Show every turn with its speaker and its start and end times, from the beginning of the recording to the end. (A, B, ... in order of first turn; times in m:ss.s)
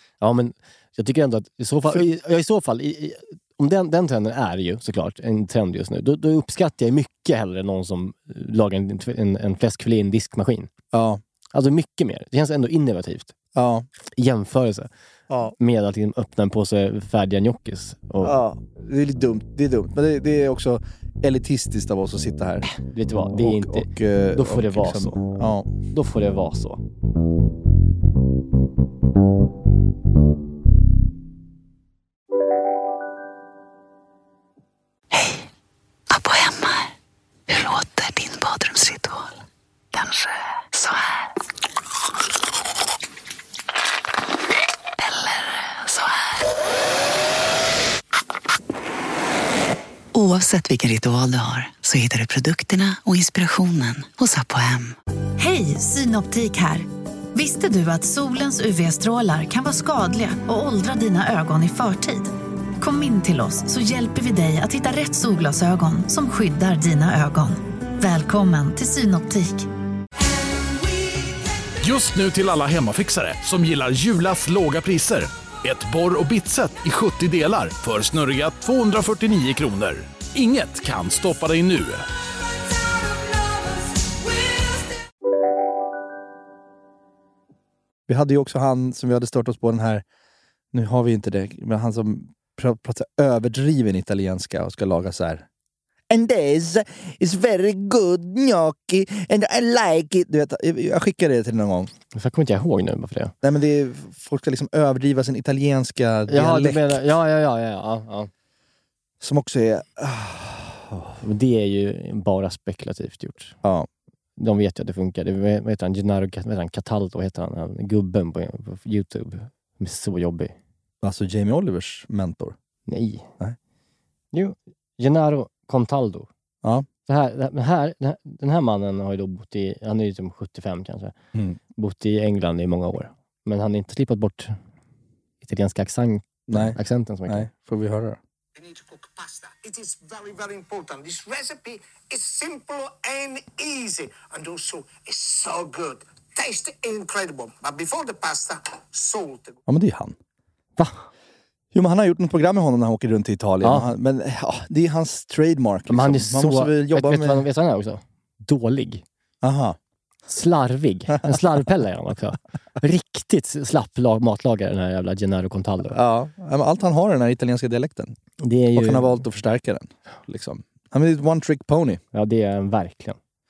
0:00.2-0:10.7 A
0:10.9-0:11.2 B
0:11.5-0:13.3 A
0:13.6-0:13.9 B
0:14.2-0:14.9 A
0:15.6-0:18.4 A
0:18.2-0:22.7 B
0:22.7-0:25.2 A
0:23.3-0:25.7 B
0:25.9-0:26.8 A
0:35.1-0:35.4 C
0:36.1-0:36.9 C
0:37.5-0:39.3 C
0:39.9-0:41.3 C
0:45.0-0:46.2 C
0:50.1-0:55.0 C
0:55.4-1:09.7 D
1:11.8-1:22.0 E
1:28.1-1:30.0 B
1:30.7-1:35.4 B
1:36.1-1:41.9 B
1:42.1-1:43.3 A
1:43.4-1:47.0 B
1:46.3-1:48.3 A
1:49.2-1:51.2 B
1:51.2-1:53.6 A
1:54.4-2:00.5 A
2:01.0-2:02.6 B
2:02.9-2:03.3 A
2:04.3-2:06.3 A
2:07.1-2:11.1 A
2:11.8-2:14.5 A
2:15.4-2:17.5 A
2:16.5-2:18.2 B
2:18.6-2:29.6 F
2:29.7-2:30.2 B
2:30.8-2:31.1 A
2:31.7-2:37.5 B
2:33.6-2:33.9 A
2:35.9-2:39.0 A
2:39.4-2:39.8 B
2:40.3-2:46.0 A
2:45.9-2:48.2 B
2:48.4-2:49.2 A
2:48.7-2:52.0 B
2:52.1-2:53.2 A